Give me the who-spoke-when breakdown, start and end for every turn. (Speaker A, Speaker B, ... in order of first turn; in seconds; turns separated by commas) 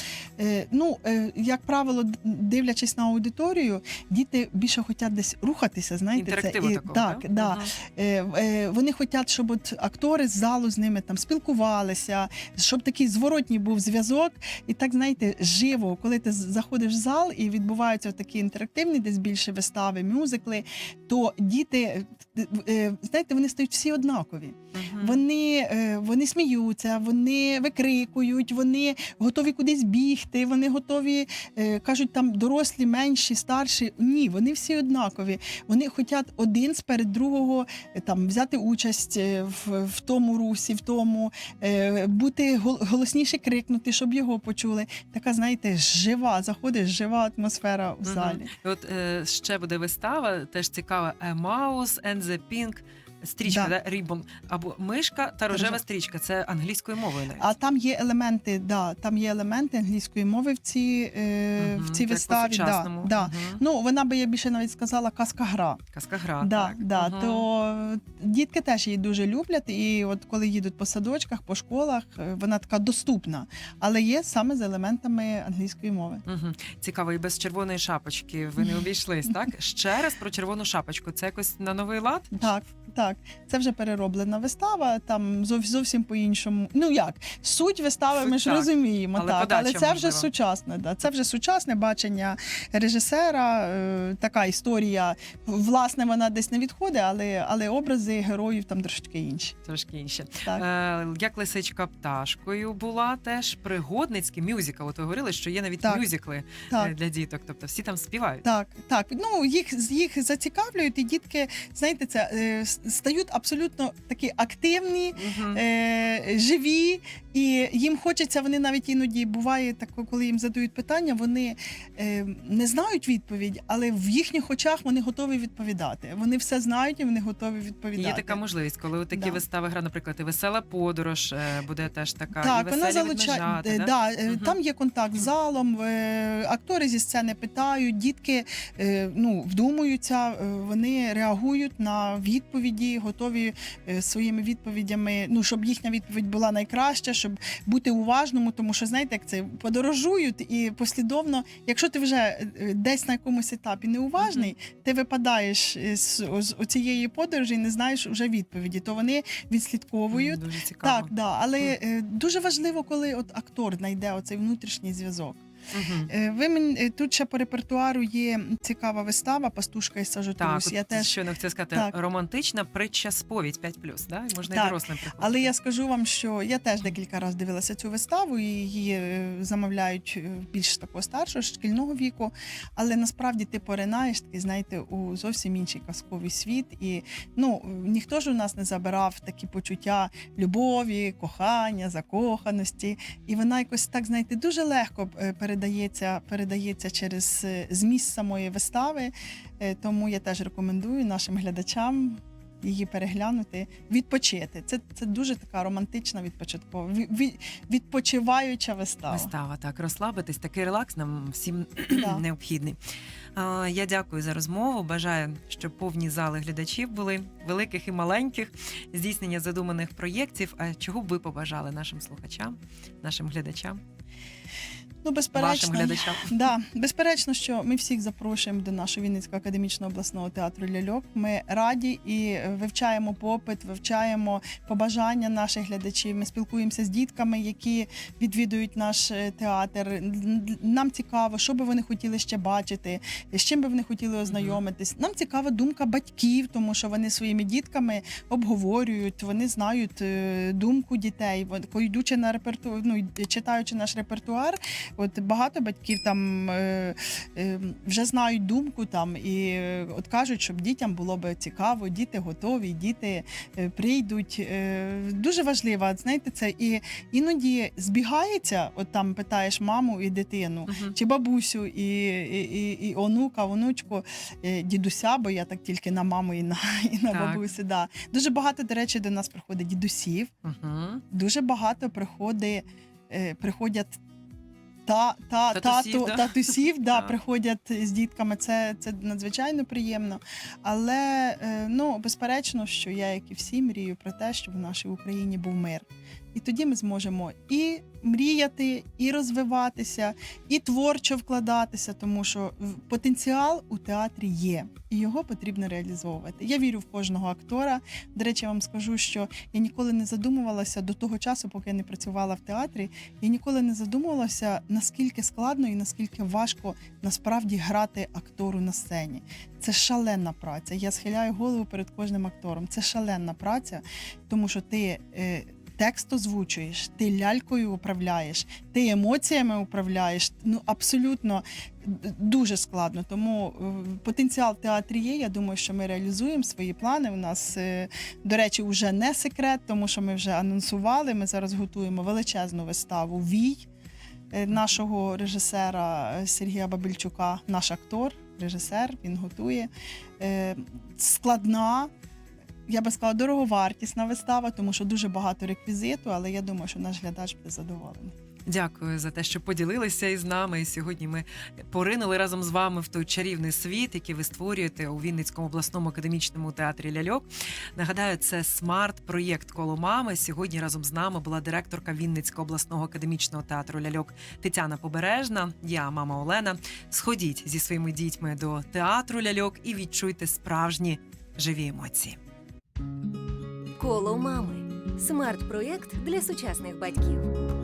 Speaker A: 0.4-48.5, Speaker B: 6.2-7.8, Speaker B: 24.7-25.2, Speaker B: 48.0-57.5, Speaker A: 53.5-53.7, Speaker A: 55.5-55.8, Speaker A: 57.4-65.8, Speaker B: 61.6-63.6, Speaker B: 65.9-67.5, Speaker A: 66.4-76.2, Speaker B: 76.3-82.4, Speaker A: 82.3-99.6, Speaker B: 88.2-90.3, Speaker B: 99.7-108.5, Speaker A: 106.7-106.9, Speaker A: 108.4-128.4, Speaker B: 115.2-115.6, Speaker B: 128.0-134.6, Speaker A: 129.1-129.4, Speaker A: 132.4-165.4, Speaker B: 154.2-154.5, Speaker B: 160.1-161.1, Speaker B: 165.7-166.1, Speaker A: 166.1-171.2, Speaker B: 170.4-175.5, Speaker A: 174.5-209.3, Speaker B: 209.1-212.8, Speaker A: 211.9-212.2, Speaker B: 213.3-223.8, Speaker A: 225.0-280.3, Speaker B: 225.3-226.4, Speaker B: 244.3-244.6, Speaker B: 270.7-271.0, Speaker B: 277.1-277.4, Speaker B: 280.4-281.0, Speaker A: 281.1-284.0, Speaker A: 284.9-343.7, Speaker B: 285.5-287.1, Speaker A: 344.3-351.9, Speaker A: 352.7-358.1, Speaker B: 358.5-382.2, Speaker C: 383.8-387.4